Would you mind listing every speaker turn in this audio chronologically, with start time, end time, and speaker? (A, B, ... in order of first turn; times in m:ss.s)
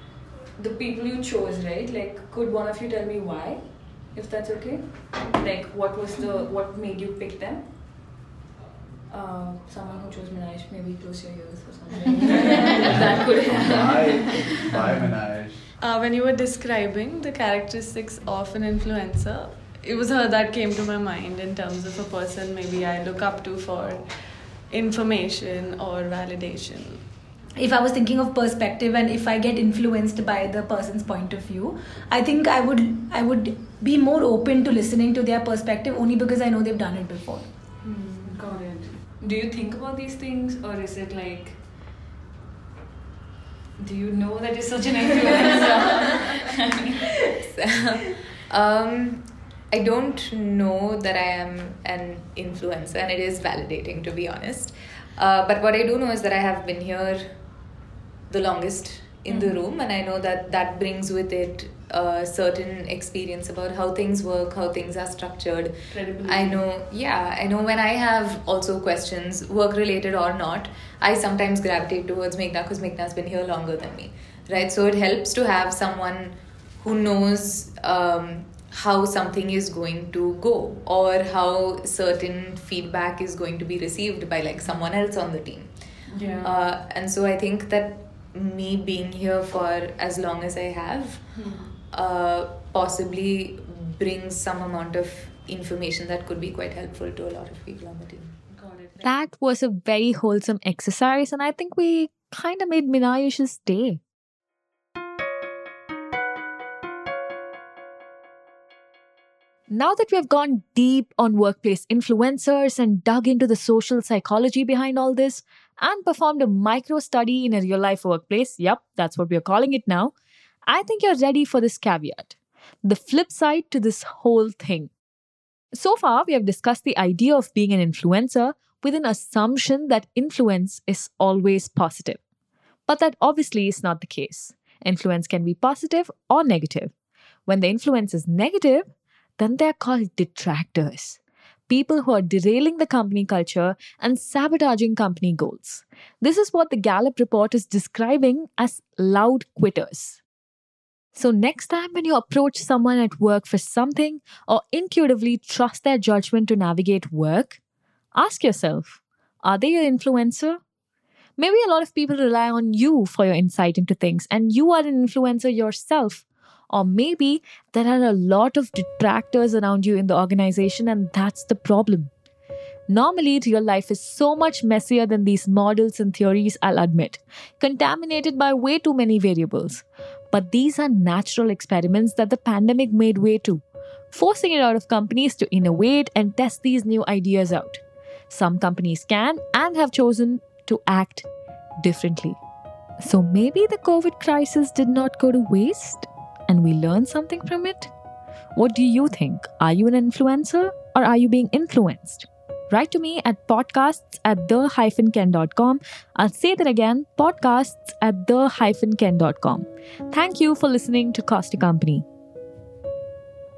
0:00.6-0:08.0 A
0:09.1-0:15.2 A
0:13.4-0:15.6 B
0:15.8-0:27.0 C
0:27.6-0:37.5 D
0:37.8-0:41.7 A
0:43.8-0:47.0 A
0:47.3-0:57.4 E
0:58.3-1:38.3 E
0:59.3-0:59.5 A
1:05.9-1:06.6 C
1:26.1-1:26.5 C
1:26.1-1:26.4 A
1:31.3-1:31.7 C
1:31.4-1:31.7 A
1:38.5-1:39.0 A
1:39.0-1:44.0 F
1:49.7-2:00.1 F
2:00.7-2:04.9 F
2:05.7-2:12.2 F
2:12.9-2:16.9 F
2:17.5-2:30.2 F
2:31.1-2:37.6 F
2:38.1-2:40.6 F
2:41.4-2:52.1 F
2:52.9-3:11.3 F
3:11.8-3:12.4 F
3:13.0-3:17.9 F
3:18.6-3:32.0 F